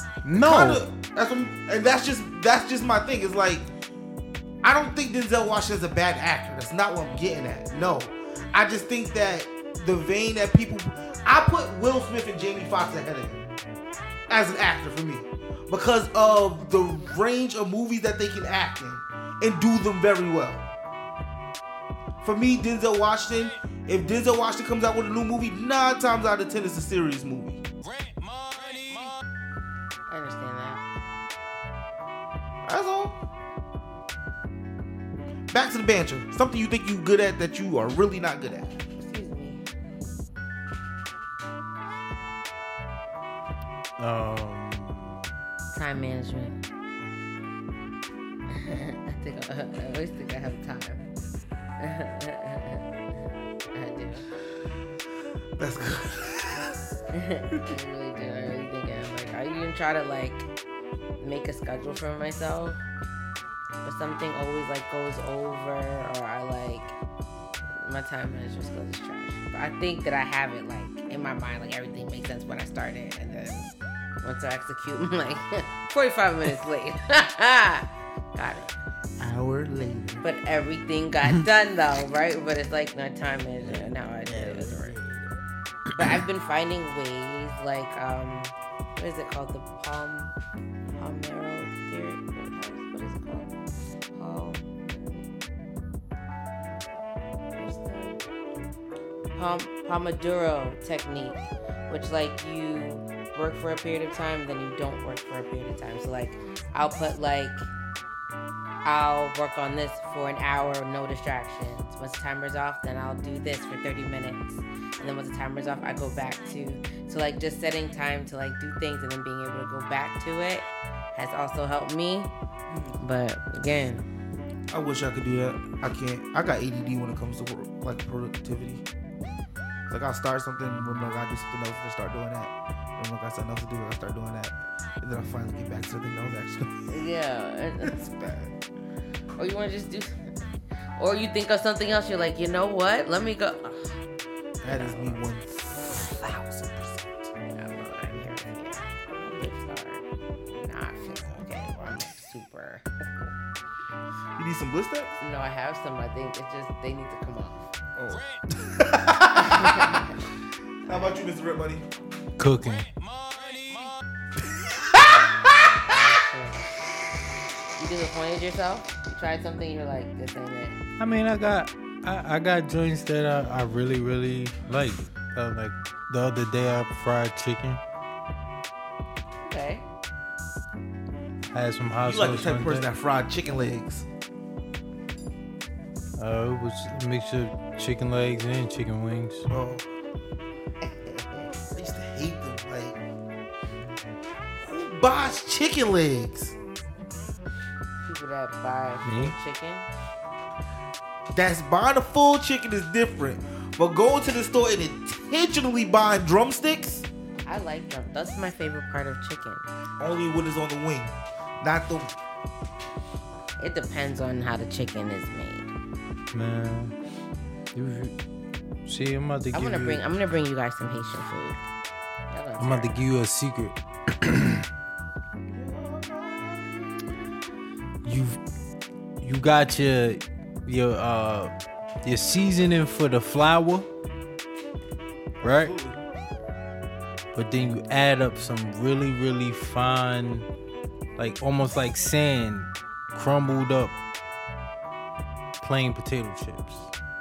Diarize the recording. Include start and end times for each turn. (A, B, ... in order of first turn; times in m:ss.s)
0:00.2-0:00.8 A
0:00.4-0:03.7 B
0:04.6-0:13.4 B
0:14.3-0:20.7 B
0:22.2-0:27.6 B
0:30.1-0:30.8 C
0:32.7-0:33.2 B
0:35.5-0:38.8 B
0:39.0-0:39.6 C
0:44.0-0:45.3 A
0:45.7-0:46.6 C
0:48.5-0:51.1 C
0:51.8-0:52.8 C
0:53.7-0:54.3 C
0:55.6-0:56.7 B
0:57.1-1:00.5 C
1:01.2-1:02.8 C
1:03.8-1:07.0 C
1:07.8-1:13.7 C
1:14.2-1:18.7 C
1:19.2-1:20.2 B
1:20.2-1:25.0 C
1:24.3-1:25.2 A
1:25.9-1:30.3 C
1:31.0-1:33.5 C
1:34.2-1:35.3 C
1:37.6-1:38.2 C
1:39.4-1:47.7 C
1:48.8-2:02.3 C
2:03.0-2:04.0 C
2:04.7-2:08.8 B
2:09.9-2:16.9 B
2:16.9-2:17.9 C
2:17.8-2:18.5 B
2:19.4-2:20.2 C
2:21.0-2:24.0 C
2:24.6-2:27.3 B
2:24.7-2:25.2 C
2:27.5-2:32.8 C
2:34.4-2:35.2 B
2:35.2-2:37.7 C
2:38.0-2:40.1 B
2:39.4-2:40.1 C
2:40.9-2:41.2 C
2:40.9-2:41.8 B
2:42.4-2:42.9 A
2:44.5-2:45.8 B
2:45.9-2:46.7 C
2:47.8-2:50.8 C
2:51.0-2:57.8 A
2:59.4-2:59.8 C
3:01.5-3:02.9 A
3:02.0-3:04.1 B
3:06.2-3:09.5 A
3:09.5-3:09.9 B
3:11.7-3:13.0 B
3:14.6-3:16.6 B
3:18.0-3:19.9 C
3:19.0-3:19.4 A
3:21.3-3:27.1 B
3:27.4-3:29.6 C
3:30.0-3:32.1 B
3:33.6-3:35.7 C
3:36.3-3:36.9 A
3:37.7-3:38.2 A
3:38.9-3:40.0 A
3:39.5-3:41.6 C
3:42.3-3:43.1 C
3:42.6-3:44.7 A
3:45.5-3:47.6 B
3:48.0-3:48.4 A
3:49.2-3:51.5 A
3:52.0-3:53.9 A
3:55.4-3:56.0 B
3:55.4-3:55.7 A
3:57.3-4:00.5 A
4:01.2-4:04.0 A
4:05.6-4:06.9 A